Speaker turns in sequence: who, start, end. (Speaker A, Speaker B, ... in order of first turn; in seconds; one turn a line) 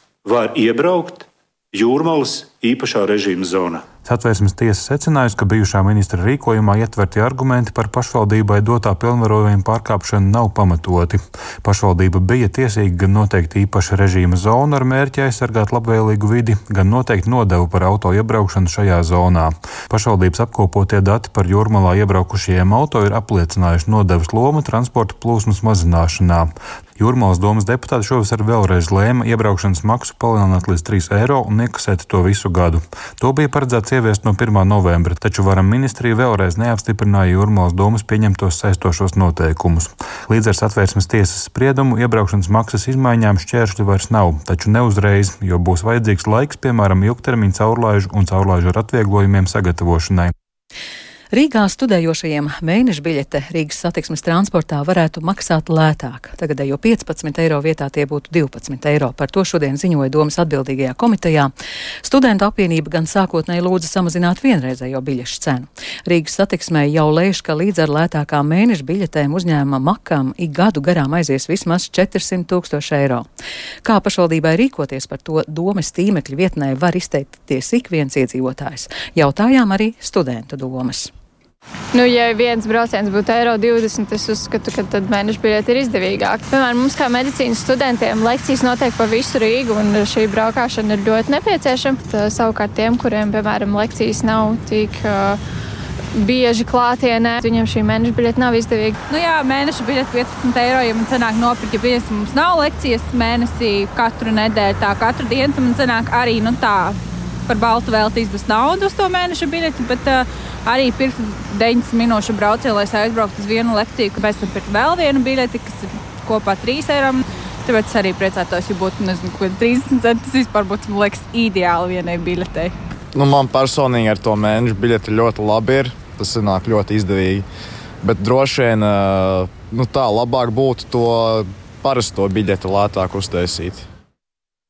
Speaker A: 0.2-3.8
Speaker B: 4.0-50.3
Speaker C: 51.3-61.5
Speaker C: 62.0-73.3
Speaker C: 73.8-81.1
Speaker D: 81.9-95.4
Speaker D: 96.1-99.0
Speaker E: 99.1-107.0
Speaker E: 107.5-122.7
Speaker F: 123.2-127.4
Speaker F: 128.0-133.8